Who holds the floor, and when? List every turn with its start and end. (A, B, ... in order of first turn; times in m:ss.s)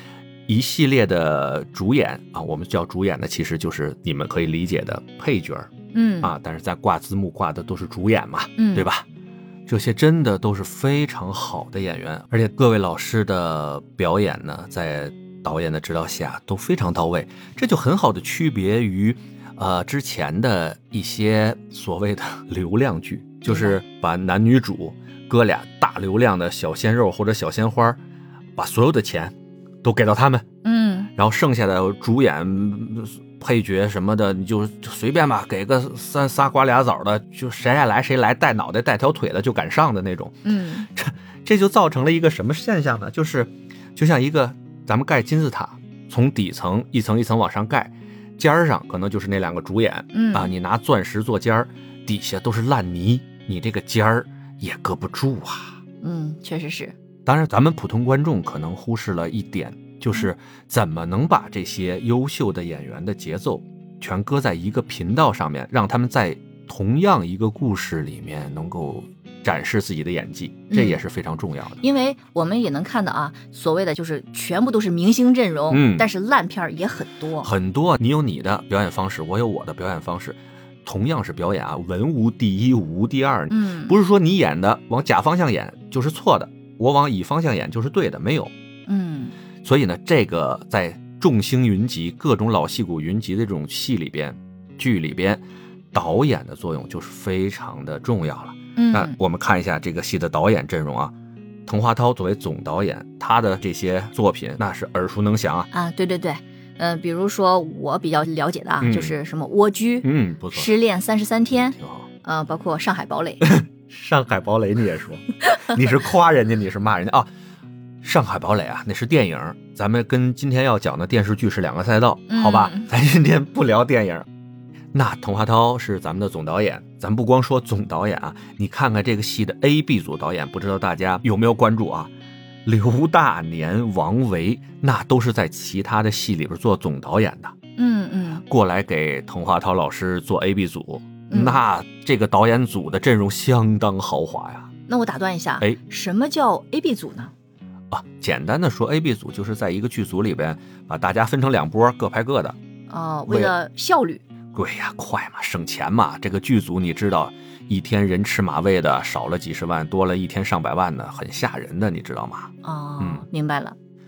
0:00.5-0:05.7 A
0:05.9-0:06.3 B
0:06.2-0:09.0 A
0:08.6-0:08.9 B
0:09.7-0:28.0 A
0:23.4-0:23.8 B
0:28.6-0:30.4 A
0:30.6-0:31.1 B
0:31.2-0:40.4 A
0:40.4-0:40.9 B
0:40.9-0:55.8 A
0:50.1-0:50.5 B
0:56.0-0:56.9 B
0:57.2-1:11.8 A
1:10.7-1:11.0 B
1:11.8-1:17.5 B
1:15.7-1:16.1 A
1:17.4-1:28.5 A
1:23.5-1:24.0 B
1:28.9-1:29.3 B
1:29.6-1:41.1 A
1:38.8-1:39.2 B
1:41.7-1:45.7 A
1:45.7-1:53.4 B
1:48.8-1:49.1 A
1:50.0-1:50.7 A
1:51.8-1:52.1 A
1:53.4-1:57.3 A
1:58.0-2:04.3 A
2:02.3-2:02.9 B
2:04.9-2:12.1 A
2:12.6-2:17.5 A
2:17.8-2:18.4 B
2:18.5-2:24.7 A
2:21.3-2:21.6 B
2:24.9-2:27.3 B
2:27.9-2:32.6 A
2:32.9-2:34.2 B
2:33.3-2:33.5 A
2:34.5-2:43.2 A
2:42.6-2:43.7 B